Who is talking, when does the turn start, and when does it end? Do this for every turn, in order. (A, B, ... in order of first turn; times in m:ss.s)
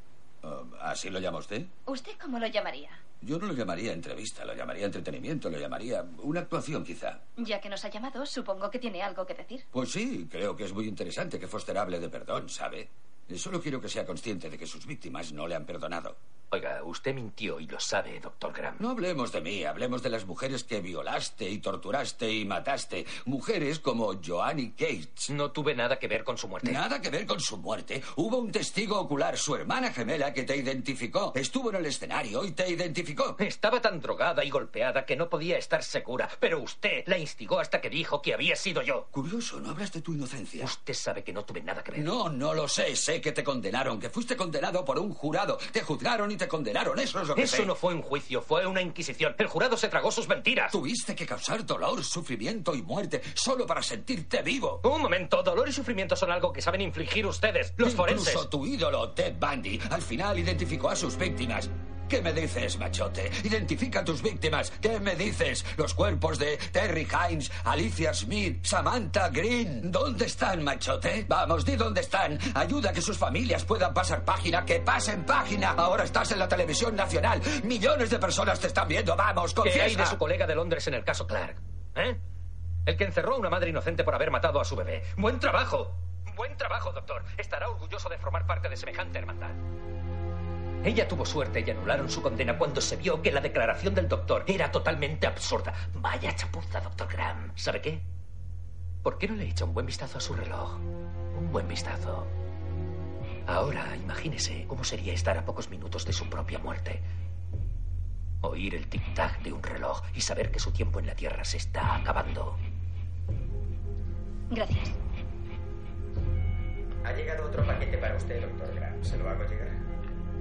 0:00.4-0:01.7 A
0:01.9-0:03.0 B
0:03.2-0:07.2 A
0:07.4-0:09.6 B
0:09.7-0:16.2 A
0:16.5-0:18.8 C
0:18.8-0:25.3 A
0:25.3-0:26.8 C
0:26.6-0:33.4 A
0:33.4-0:39.0 C
0:39.1-0:40.7 A
0:40.6-0:42.1 C
0:41.9-0:47.7 A
0:47.3-0:50.8 C
0:50.7-0:54.8 A
0:54.8-0:58.5 C
0:57.8-1:20.2 A
1:19.6-1:22.2 C
1:22.9-1:29.6 C
1:30.8-1:38.0 C
1:39.0-1:40.8 C
1:41.3-1:42.3 C
1:43.5-1:47.0 C
1:48.4-1:52.6 C
1:54.5-1:54.9 B
1:57.0-1:59.8 D